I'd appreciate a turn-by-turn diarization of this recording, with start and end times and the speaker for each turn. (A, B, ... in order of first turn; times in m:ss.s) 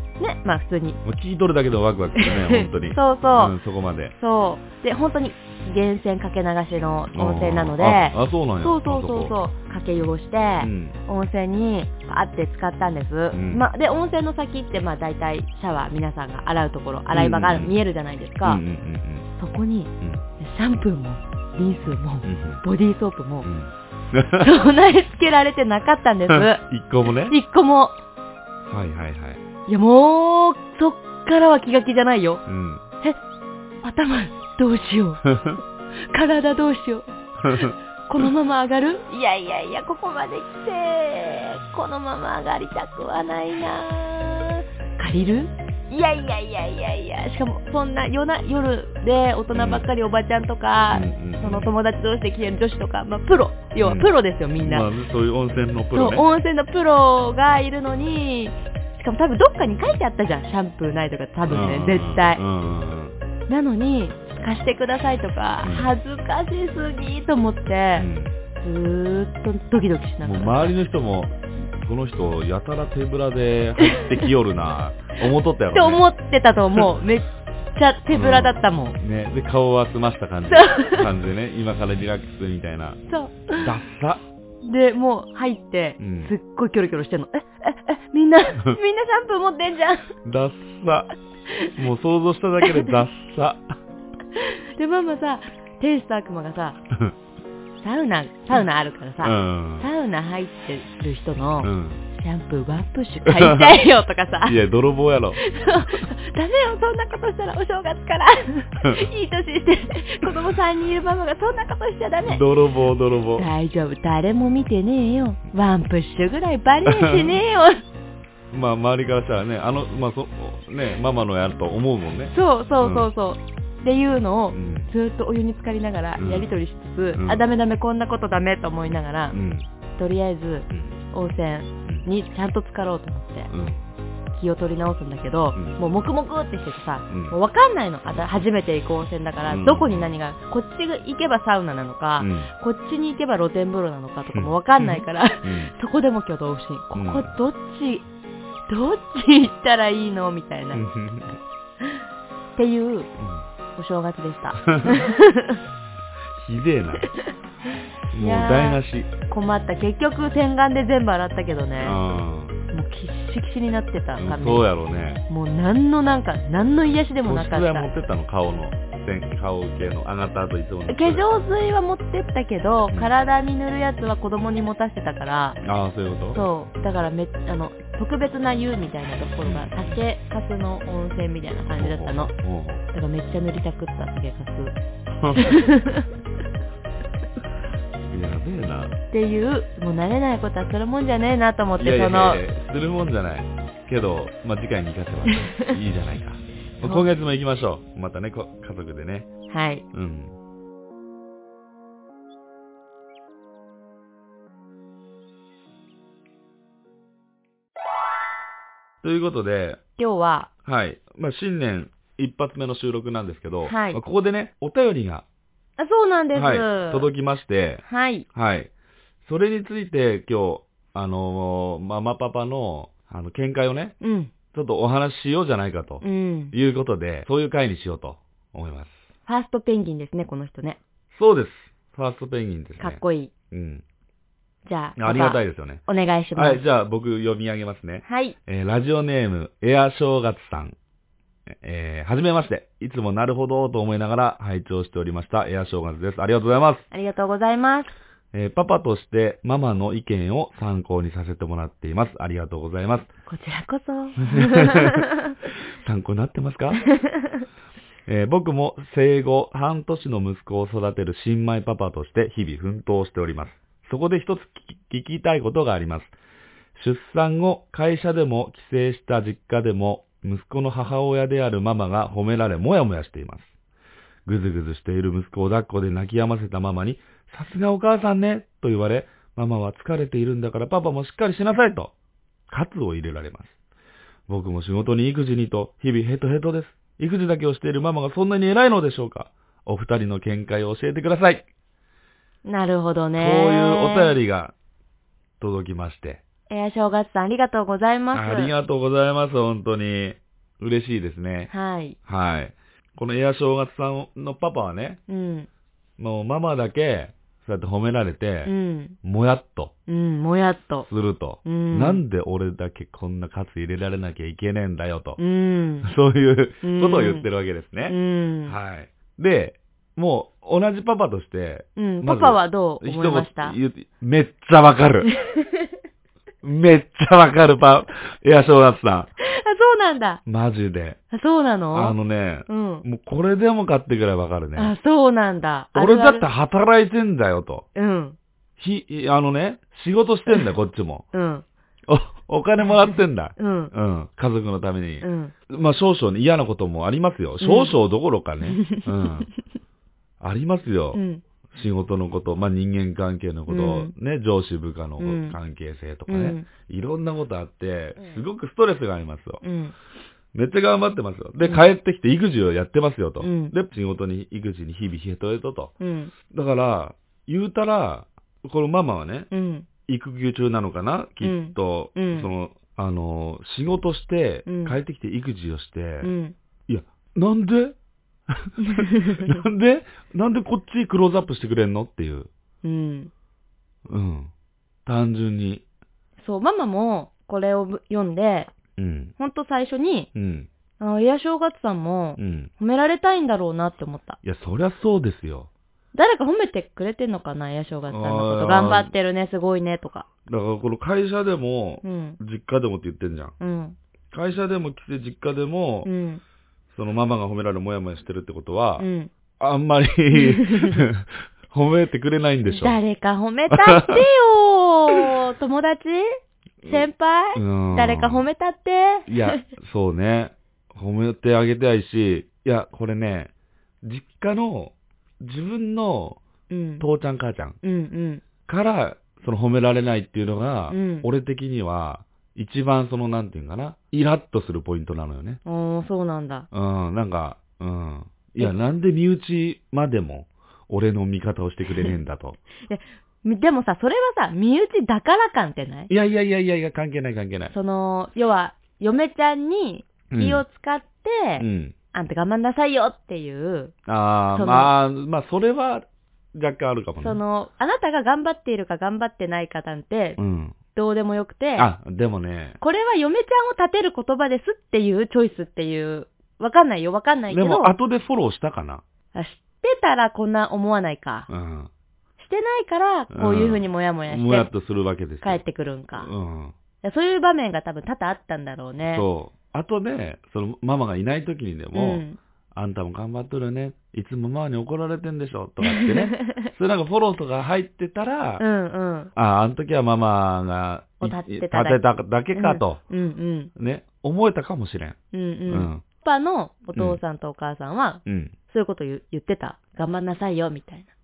0:00.2-0:01.0 A
0:01.0-0:04.2 B
0:02.2-0:03.6 A
0:04.2-0:18.6 A
0:07.2-0:09.4 B
0:10.6-0:11.0 B
0:13.3-0:13.7 B
0:17.1-0:17.8 B
0:18.4-0:19.3 B
0:19.4-0:23.5 A
0:22.2-0:22.6 B
0:23.4-0:24.5 B
0:24.4-0:26.6 A
0:26.3-0:27.4 B
0:27.3-0:28.0 A
0:28.6-0:29.4 B
0:29.7-0:32.4 A
0:32.5-0:32.8 B
0:33.8-0:35.3 A
0:35.3-0:35.6 B
0:36.1-0:54.9 A
0:37.4-0:38.2 B
0:49.5-0:49.9 B
0:50.9-0:51.7 B
0:53.8-0:56.2 B
0:55.9-1:02.4 A
1:01.5-1:03.2 B
1:03.5-1:08.1 A
1:05.6-1:05.9 B
1:08.0-1:08.3 B
1:08.6-1:10.8 A
1:10.2-1:16.0 B
1:15.7-1:19.0 A
1:18.1-1:23.0 B
1:20.5-1:21.1 A
1:23.1-1:23.7 A
1:23.6-1:24.2 B
1:24.6-1:30.2 A
1:26.0-1:26.3 B
1:30.2-1:31.1 B
1:31.8-1:33.7 B
1:32.6-1:32.9 A
1:34.4-1:36.8 A
1:37.8-1:44.6 A
1:39.2-1:39.9 B
1:41.6-1:42.0 B
1:43.2-1:43.8 B
1:44.5-1:45.4 B
1:45.4-1:52.4 A
1:52.2-1:53.5 B
1:53.4-1:57.8 A
1:56.9-1:57.4 B
1:58.5-2:03.1 B
2:02.3-2:09.4 A
2:04.5-2:04.9 B
2:06.2-2:06.5 B
2:07.2-2:07.4 B
2:09.3-2:09.7 B
2:10.0-2:13.5 A
2:10.7-2:11.0 B
2:13.5-2:13.8 B
2:14.3-2:28.1 A
2:17.1-2:17.4 B
2:19.5-2:20.1 B
2:22.2-2:22.5 B
2:24.3-2:25.7 B
2:27.0-2:27.3 B
2:28.7-2:30.8 A
2:30.7-2:31.4 B
2:32.6-2:33.1 A
2:33.2-2:33.4 B
2:33.8-2:35.6 A
2:34.6-2:35.1 B
2:36.4-2:37.1 B
2:37.0-2:37.3 A
2:38.1-2:39.1 B
2:38.2-2:42.0 A
2:41.8-2:42.6 B
2:42.7-2:44.7 A
2:44.2-2:45.2 B
2:45.3-2:47.9 A
2:47.2-2:51.3 B
2:50.9-2:55.6 A
2:55.6-2:56.4 B
2:56.3-3:02.3 A
2:59.4-3:00.0 B
3:01.7-3:02.8 B
3:02.9-3:04.8 A
3:05.2-3:05.7 B
3:05.4-3:06.1 A
3:08.1-3:09.0 B
3:09.1-3:12.4 A
3:11.8-3:19.3 B
3:15.3-3:15.7 A
3:16.8-3:17.1 A
3:19.5-3:19.8 A
3:19.9-3:20.3 B
3:29.0-3:29.8 B
3:30.0-3:30.5 A
3:30.6-3:35.2 B
3:33.6-3:34.0 A
3:35.8-3:37.1 A
3:36.3-3:38.7 B
3:37.8-3:38.3 A
3:39.2-3:44.0 B
3:44.0-3:44.3 A
3:44.5-3:49.0 B
3:46.0-3:46.5 A
3:49.3-3:50.8 A
3:51.1-3:53.8 B
3:52.8-3:53.3 A
3:54.7-3:56.6 A
3:55.0-3:55.8 B
3:56.4-4:00.8 B
3:58.1-3:58.4 A
4:01.5-4:06.9 B
4:06.9-4:07.9 A
4:08.3-4:13.1 B
4:13.3-4:15.3 A
4:14.2-4:16.9 B
4:17.0-4:17.4 A
4:18.1-4:26.2 B
4:26.8-4:33.5 B
4:34.3-4:41.9 B
4:42.5-4:43.6 B
4:44.3-4:51.5 B
4:52.4-4:54.2 A
4:53.2-4:54.5 B
4:55.4-4:56.2 B
4:56.5-4:58.5 A
4:58.1-5:01.5 B
5:01.5-5:02.0 A
5:02.1-5:05.0 B
5:05.1-5:05.5 A
5:06.0-5:09.7 B
5:08.4-5:09.0 A
5:09.9-5:10.9 A
5:10.9-5:15.2 B
5:11.4-5:12.0 A
5:15.2-5:15.9 A
5:15.8-5:25.1 B
5:16.6-5:17.3 A
5:17.9-5:18.6 A
5:21.8-5:23.6 A
5:25.1-5:25.7 A
5:26.4-5:29.1 B
5:29.2-5:30.2 A
5:30.3-5:31.0 B
5:31.1-5:32.0 A
5:31.7-5:34.7 B
5:32.5-5:32.8 A
5:34.6-5:36.3 A
5:35.8-5:37.7 B
5:37.8-5:38.2 A
5:38.6-5:41.1 B
5:41.1-5:41.4 A
5:41.9-5:49.3 B
5:43.4-5:43.7 A
5:45.0-5:45.3 A
5:47.4-5:47.8 A
5:48.4-5:49.2 A
5:50.2-5:51.0 B
5:50.9-5:51.2 A
5:51.5-5:59.4 B
5:53.5-5:53.9 A
5:55.0-5:55.4 A
5:56.1-5:56.5 A
5:59.4-5:59.8 A
6:00.3-6:05.7 B
6:01.4-6:01.7 A
6:03.2-6:03.5 A
6:05.8-6:06.1 A
6:06.3-6:09.3 B
6:09.3-6:09.7 A
6:09.9-6:16.1 B
6:11.2-6:12.3 A
6:14.5-6:14.8 A
6:16.0-6:16.4 A
6:16.7-6:17.8 B
6:18.3-6:22.3 B
6:18.6-6:19.3 A
6:22.6-6:23.1 A
6:23.9-6:24.3 B
6:24.9-6:25.6 B
6:26.2-6:28.5 A
6:28.8-6:29.1 B
6:29.2-6:30.1 A
6:30.2-6:30.5 B
6:30.8-6:34.2 A
6:32.2-6:32.5 B
6:34.2-6:35.5 B
6:35.9-6:40.1 A
6:37.9-6:38.9 B
6:40.3-6:43.4 B
6:41.8-6:42.2 A
6:43.4-6:43.8 A
6:44.1-6:45.9 B
6:45.8-6:46.2 A
6:46.7-6:48.9 B
6:48.8-6:49.1 A
6:49.4-6:52.8 B
6:50.1-6:50.8 A
6:52.4-6:59.4 A
6:53.5-6:54.0 B
6:57.4-6:58.3 B
6:59.1-7:03.3 B
7:03.8-7:06.2 B
7:06.5-7:06.8 A
7:06.8-7:07.6 B
7:07.6-7:08.2 A
7:08.5-7:15.4 B
7:10.7-7:11.1 A
7:15.4-7:16.5 A
7:16.5-7:22.4 B
7:21.7-7:22.0 A
7:22.7-7:25.9 A
7:25.9-7:27.5 B
7:27.5-7:33.8 A
7:30.1-7:30.4 B
7:31.4-7:31.8 B
7:33.9-7:37.2 B
7:34.3-7:34.7 A
7:37.0-7:40.2 A
7:40.2-7:40.6 B
7:40.7-7:41.7 A
7:41.6-7:42.6 B
7:42.6-7:47.7 A
7:47.3-7:48.8 B
7:49.1-7:51.3 A
7:51.3-7:51.7 B
7:52.2-7:54.5 A
7:53.1-7:55.4 B
7:55.2-7:56.1 A
7:56.0-7:56.6 B
7:56.8-7:59.1 A
7:58.9-8:08.4 B
8:01.7-8:02.2 A
8:05.6-8:06.5 A
8:08.4-8:09.1 A
8:09.2-8:12.8 B
8:11.0-8:11.8 A
8:12.3-8:13.5 A
8:13.6-8:15.0 B
8:15.1-8:20.9 A
8:15.5-8:15.8 B
8:18.1-8:18.3 B